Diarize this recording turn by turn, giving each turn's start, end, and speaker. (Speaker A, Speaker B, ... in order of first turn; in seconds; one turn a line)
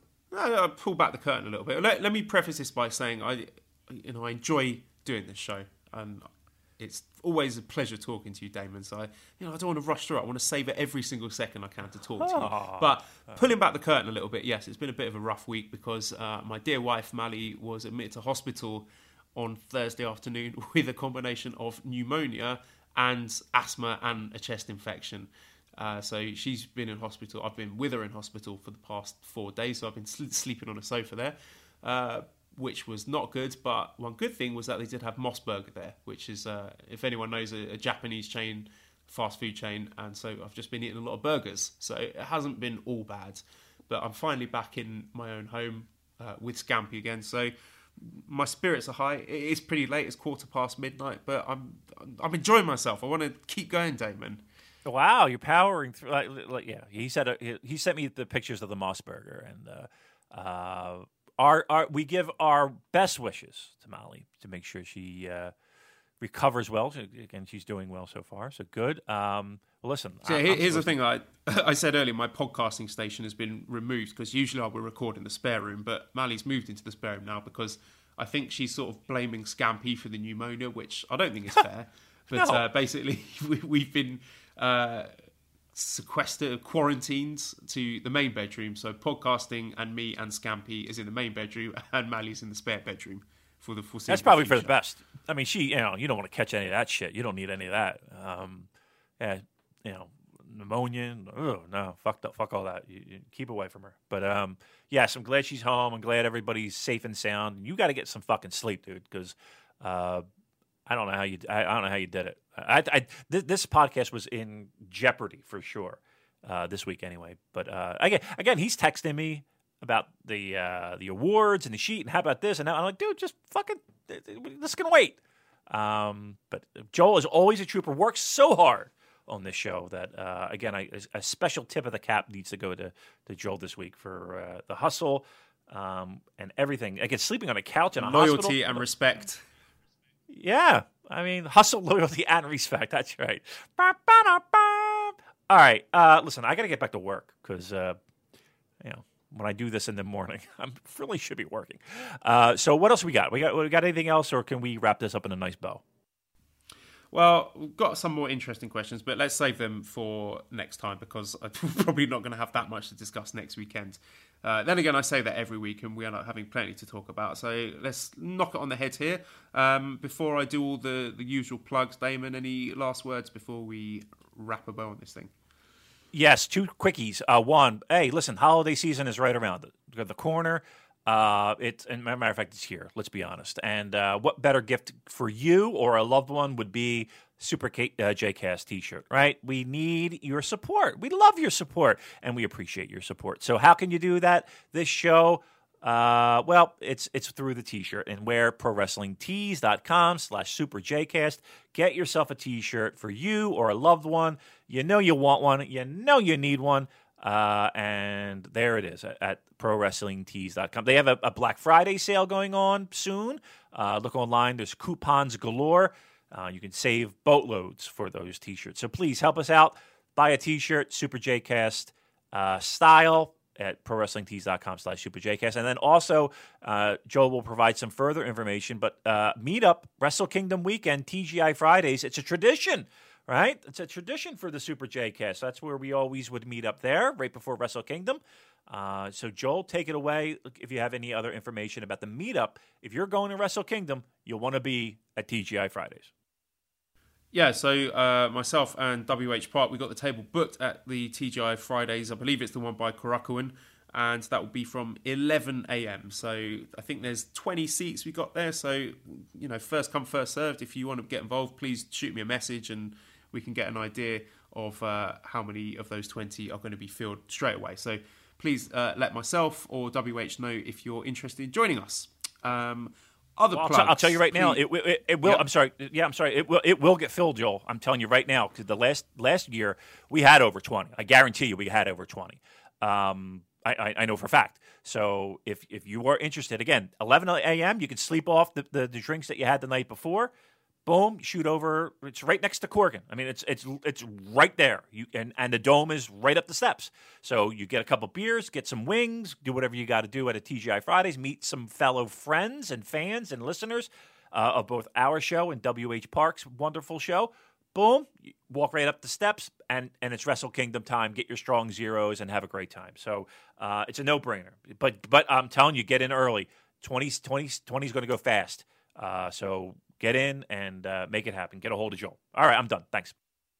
Speaker A: 0.3-6.3
Speaker A: 6.8-54.4
Speaker B: 12.2-13.4
Speaker B: 54.9-65.5
Speaker B: 66.2-70.9
Speaker A: 70.2-85.1
Speaker B: 82.3-82.6
Speaker A: 85.8-94.7
Speaker B: 94.1-98.7
Speaker B: 99.2-110.2
Speaker B: 110.9-125.2
Speaker B: 125.7-138.8
Speaker A: 138.0-139.4
Speaker B: 140.3-148.0
Speaker B: 148.8-155.8
Speaker A: 157.1-175.3
Speaker B: 176.1-246.1
Speaker A: 247.3-274.6
Speaker B: 273.5-290.3
Speaker B: 290.9-323.1